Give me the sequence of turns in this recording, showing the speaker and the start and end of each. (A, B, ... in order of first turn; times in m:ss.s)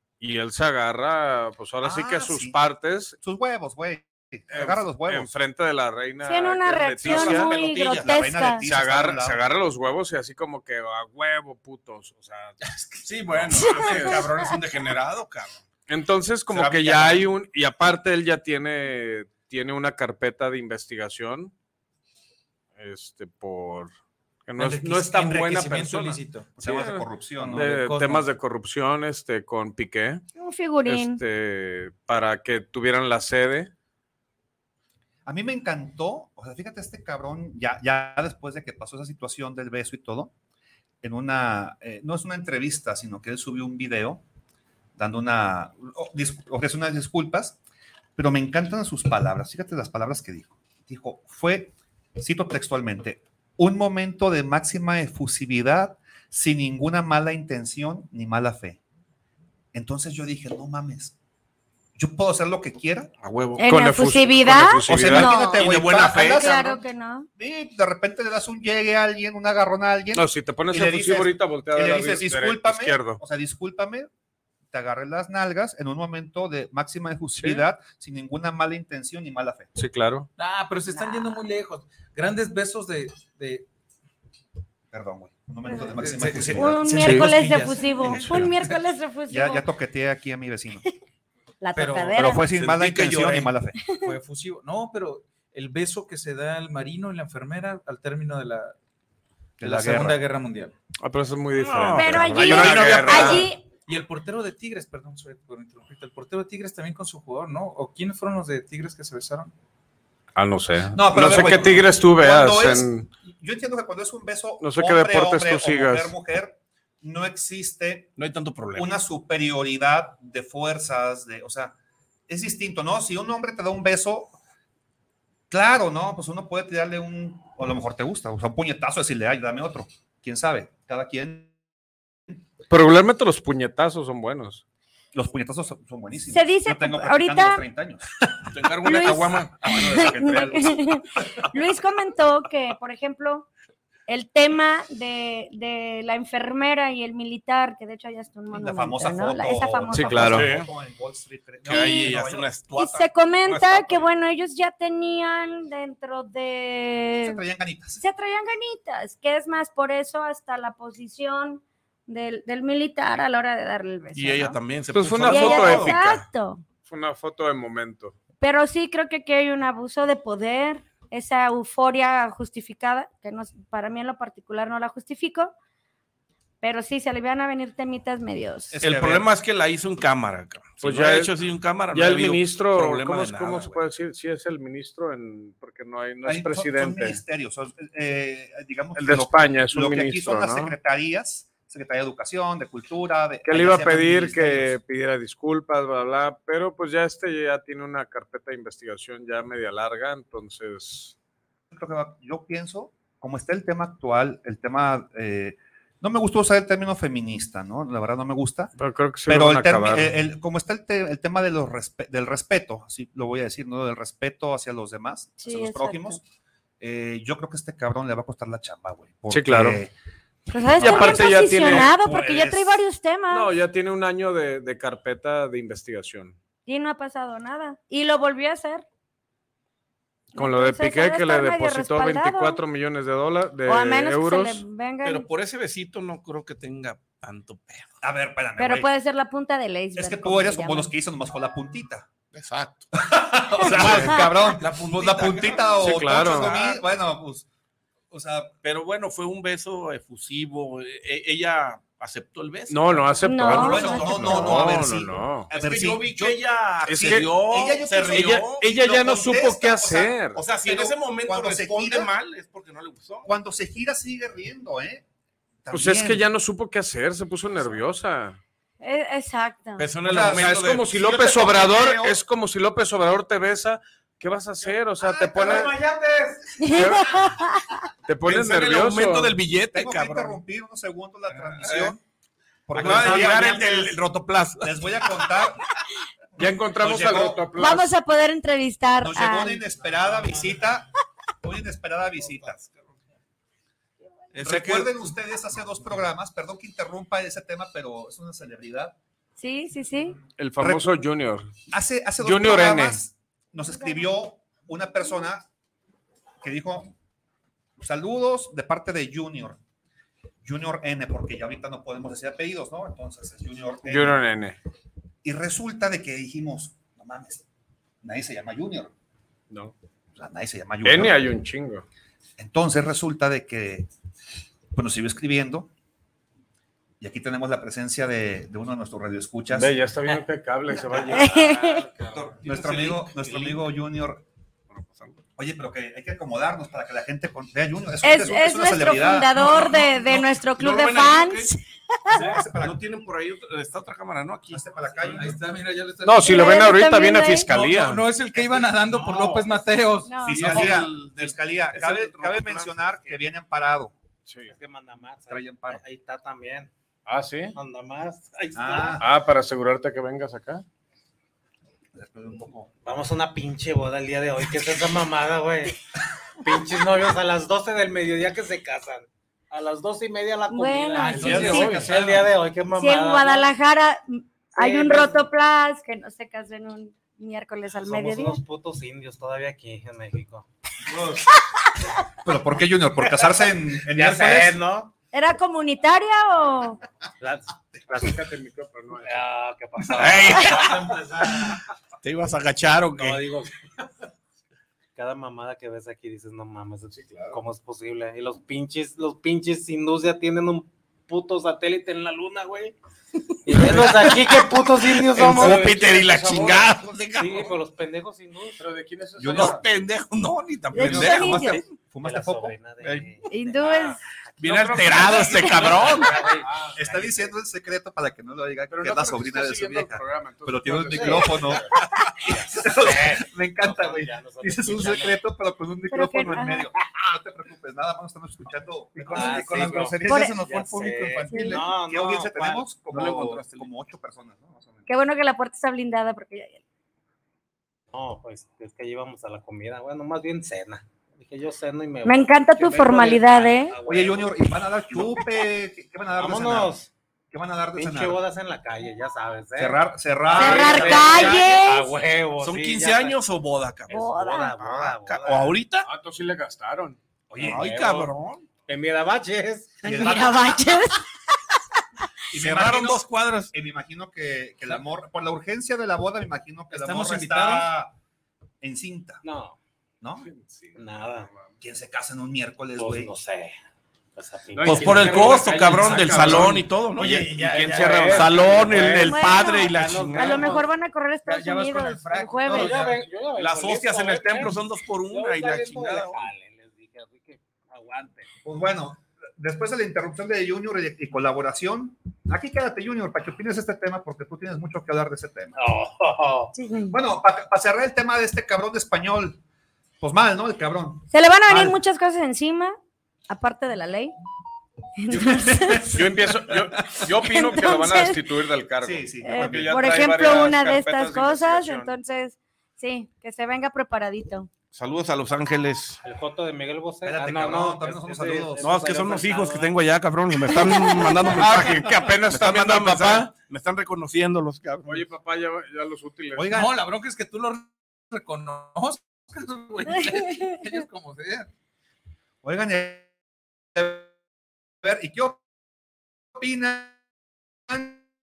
0:00.2-0:03.2 A
0:01.8-0:02.6 B
0:03.2-0:05.3 B
0:04.5-0:07.5 A
0:06.2-0:08.6 C
0:07.0-0:08.3 D
0:07.0-0:09.4 B
0:08.6-0:12.6 A
0:12.6-0:13.6 E
0:13.0-0:15.6 D
0:13.6-0:14.5 C
0:13.7-0:14.2 A
0:15.9-0:21.5 A
0:16.5-0:17.3 D
0:22.8-0:23.9 A
0:24.5-0:30.2 A
0:24.6-0:26.5 E
0:24.6-0:25.7 B
0:26.6-0:27.7 B
0:27.4-0:28.3 E
0:30.4-0:31.2 C
0:30.8-0:33.7 A
0:35.2-0:40.3 B
0:41.0-0:44.2 B
0:45.0-0:47.6 B
0:48.2-0:58.8 B
0:59.7-1:01.1 B
1:02.0-1:03.1 B
1:03.2-1:03.6 D
1:03.6-1:07.3 C
1:03.6-1:05.4 A
1:04.9-1:06.8 B
1:05.4-1:06.7 D
1:07.4-1:14.1 B
1:10.1-1:13.2 A
1:14.7-1:19.7 B
1:17.4-1:17.6 A
1:19.8-1:20.3 A
1:20.4-1:23.6 E
1:21.0-1:21.4 C
1:24.9-1:28.5 B
1:25.6-1:26.0 C
1:26.0-1:28.4 E
1:26.5-1:29.6 C
1:27.0-1:27.3 A
1:29.3-1:30.8 B
1:31.6-1:32.4 C
1:31.7-1:32.2 E
1:32.1-1:33.8 B
1:32.5-1:33.5 D
1:34.0-1:38.7 E
1:39.6-1:40.2 B
1:39.6-1:40.7 E
1:41.0-1:43.5 A
1:41.5-1:43.5 D
1:41.9-1:43.6 C
1:42.6-1:43.0 B
1:43.9-1:49.5 E
1:50.4-1:53.1 A
1:50.9-1:58.1 B
1:54.6-1:56.1 A
1:58.2-1:58.9 D
1:58.7-2:01.8 B
2:02.3-2:04.4 B
2:05.5-2:11.5 B
2:12.7-2:14.6 A
2:15.1-2:18.5 B
2:16.3-2:17.6 C
2:18.5-2:20.7 D
2:18.8-2:23.5 C
2:19.7-2:20.9 B
2:24.1-2:30.4 C
2:28.5-2:32.5 B
2:29.9-2:30.6 A
2:30.2-2:30.7 D
2:31.6-2:34.0 D
2:31.6-2:32.2 C
2:32.7-2:37.4 C
2:37.2-2:38.0 B
2:38.0-2:44.6 C
2:44.1-2:46.0 D
2:44.9-2:46.2 A
2:45.3-2:46.6 C
2:46.8-2:48.2 A
2:48.4-2:55.5 C
2:56.6-2:58.8 C
2:58.7-2:59.3 B
2:58.8-3:03.8 D
3:00.8-3:01.3 A
3:01.9-3:07.2 A
3:06.2-3:14.8 B
3:09.0-3:10.7 A
3:13.4-3:21.1 A
3:21.7-3:28.7 B
3:28.8-3:30.1 A
3:29.2-3:36.2 B
3:35.4-3:36.2 C
3:36.8-3:39.9 B
3:39.3-3:39.8 A
3:40.5-3:43.5 C
3:40.8-3:41.9 A
3:40.8-3:42.8 B
3:43.3-3:46.4 A
3:46.7-3:48.8 C
3:50.3-3:54.6 A
3:50.3-3:52.6 C
3:53.6-3:55.3 C
3:55.0-3:57.9 D
3:58.0-3:58.9 B
3:58.6-4:00.9 C
3:59.9-4:02.1 B
4:02.3-4:02.9 D
4:02.9-4:07.5 B
4:03.6-4:06.8 D
4:05.8-4:06.6 A
4:08.1-4:08.5 B
4:08.6-4:14.8 D
4:12.7-4:15.5 A
4:13.2-4:14.6 C
4:13.4-4:22.1 B
4:15.5-4:18.7 D
4:16.8-4:17.4 A
4:18.0-4:20.4 A
4:20.3-4:23.3 D
4:23.2-4:25.0 B
4:25.6-4:26.2 B
4:25.7-4:28.4 A
4:28.8-4:29.9 C
4:29.8-4:31.8 D
4:30.0-4:32.2 B
4:30.2-4:35.7 A
4:35.0-4:35.6 B
4:35.5-4:36.6 F
4:36.6-4:37.8 C
4:36.6-4:37.4 A
4:38.1-4:39.4 A
4:38.2-4:40.4 D
4:39.7-4:42.0 B
4:41.3-4:42.0 D
4:42.7-4:44.0 B
4:42.7-4:45.3 D
4:42.8-4:43.2 A
4:44.6-4:45.6 B
4:46.4-4:47.9 A
4:46.4-4:47.4 B
4:47.6-4:49.6 C
4:49.0-4:50.9 B
4:51.4-4:52.6 B
4:52.2-4:52.8 D
4:54.3-4:55.1 D
4:54.4-4:59.0 B
4:59.4-5:00.2 C
5:00.4-5:01.5 A
5:00.6-5:00.9 B
5:01.7-5:05.5 B
5:02.2-5:03.0 A
5:06.4-5:06.9 B
5:07.8-5:09.6 B
5:10.4-5:14.2 B
5:13.8-5:14.6 A
5:15.2-5:17.4 B
5:18.0-5:18.9 B
5:20.1-5:21.2 B
5:20.8-5:21.8 A
5:22.4-5:23.9 B
5:24.7-5:25.7 B
5:27.0-5:29.8 B
5:29.5-5:32.3 A
5:31.1-5:31.8 C
5:32.0-5:33.7 D
5:32.4-5:34.2 B
5:34.7-5:35.2 D
5:35.4-5:39.8 B
5:38.0-5:42.2 C
5:39.4-5:41.5 D
5:42.1-5:42.8 B
5:42.1-5:45.3 D
5:44.5-5:45.4 B
5:45.0-5:46.7 E
5:46.0-5:48.0 A
5:46.2-5:47.5 C
5:47.5-5:50.7 E
5:49.0-5:49.6 F
5:50.0-5:50.4 C
5:50.2-5:53.9 B
5:50.3-5:52.7 D
5:54.2-5:54.5 A
5:54.4-5:56.7 F
5:55.3-5:55.8 B
5:57.0-5:57.6 A
5:57.5-5:59.0 F
5:58.5-5:59.1 B
5:59.0-6:00.6 A
6:01.9-6:02.7 B
6:02.8-6:05.8 F
6:06.4-6:13.5 F
6:10.5-6:11.7 C
6:11.0-6:12.2 E
6:11.2-6:11.6 D
6:11.3-6:11.8 A
6:12.7-6:18.4 C
6:14.6-6:15.2 F
6:17.8-6:20.5 F
6:22.2-6:24.6 B
6:23.0-6:24.9 F
6:25.1-6:26.8 C
6:27.2-6:28.2 F
6:27.9-6:29.3 A
6:28.9-6:31.6 F
6:29.9-6:33.3 D
6:33.0-6:33.6 F
6:35.0-6:42.8 F
6:36.9-6:37.4 A
6:43.4-6:45.8 F
6:43.5-6:47.6 D
6:45.2-6:46.7 A
6:47.2-6:48.7 F
6:48.6-6:49.6 A
6:49.2-6:49.6 B
6:49.2-6:51.6 D
6:50.7-6:51.6 C
6:50.7-6:52.6 B
6:51.5-6:57.3 F
6:52.8-6:53.2 D
6:53.3-6:54.0 C
6:54.4-6:56.3 D
6:54.5-6:57.0 A
6:56.7-7:14.9 B
6:58.7-7:01.8 A
7:00.9-7:01.4 F
7:02.2-7:05.2 F
7:05.9-7:06.7 C
7:09.1-7:12.7 F
7:09.1-7:09.9 A
7:10.0-7:10.4 C
7:11.3-7:11.6 C
7:12.9-7:13.7 D
7:14.9-7:16.6 C
7:17.9-7:25.1 F
7:22.0-7:23.7 C
7:23.8-7:26.8 B
7:26.2-7:26.9 F
7:27.3-7:28.2 B
7:27.7-7:33.2 F
7:29.6-7:31.4 B
7:30.3-7:31.9 C
7:30.6-7:31.4 D
7:32.4-7:35.9 D
7:33.9-7:35.6 F
7:33.9-7:34.5 C
7:35.8-7:38.1 A
7:37.3-7:37.7 B
7:37.4-7:38.5 D
7:38.6-7:40.2 F
7:39.8-7:40.8 B
7:39.8-7:41.0 C
7:42.3-7:47.9 B
7:42.3-7:43.5 D
7:46.7-7:47.7 E
7:48.6-7:49.2 B
7:49.2-7:49.6 F
7:50.0-7:50.3 B
7:50.2-7:51.5 A
7:50.7-7:51.3 F
7:51.6-7:53.1 B
7:52.8-7:53.6 F
7:54.2-7:55.5 F
7:54.5-7:56.7 A
7:54.6-8:00.6 D
7:55.6-7:59.0 E
7:57.5-7:59.0 A
7:57.7-8:00.7 F
7:58.9-8:02.8 C
8:01.2-8:03.0 E
8:02.5-8:08.3 F
8:03.4-8:06.3 D
8:08.4-8:15.6 B
8:15.6-8:16.5 F
8:16.5-8:17.0 C
8:16.9-8:19.4 B
8:20.0-8:21.8 B
8:21.1-8:22.8 C
8:23.3-8:24.2 C
8:25.0-8:25.9 C
8:25.1-8:27.6 B
8:25.9-8:31.9 A
8:27.2-8:28.2 C
8:28.8-8:29.8 B
8:29.2-8:34.5 C
8:34.7-8:36.0 D
8:36.0-8:39.7 F
8:37.0-8:38.7 B
8:38.6-8:45.1 D
8:40.5-8:41.2 C
8:41.3-8:43.3 A
8:44.8-8:46.6 A
8:46.3-8:46.7 B
8:46.5-8:51.5 E
8:52.4-8:53.1 B
8:53.7-8:54.1 B
8:54.8-8:55.4 B
8:56.4-8:57.0 B
8:57.7-8:58.0 B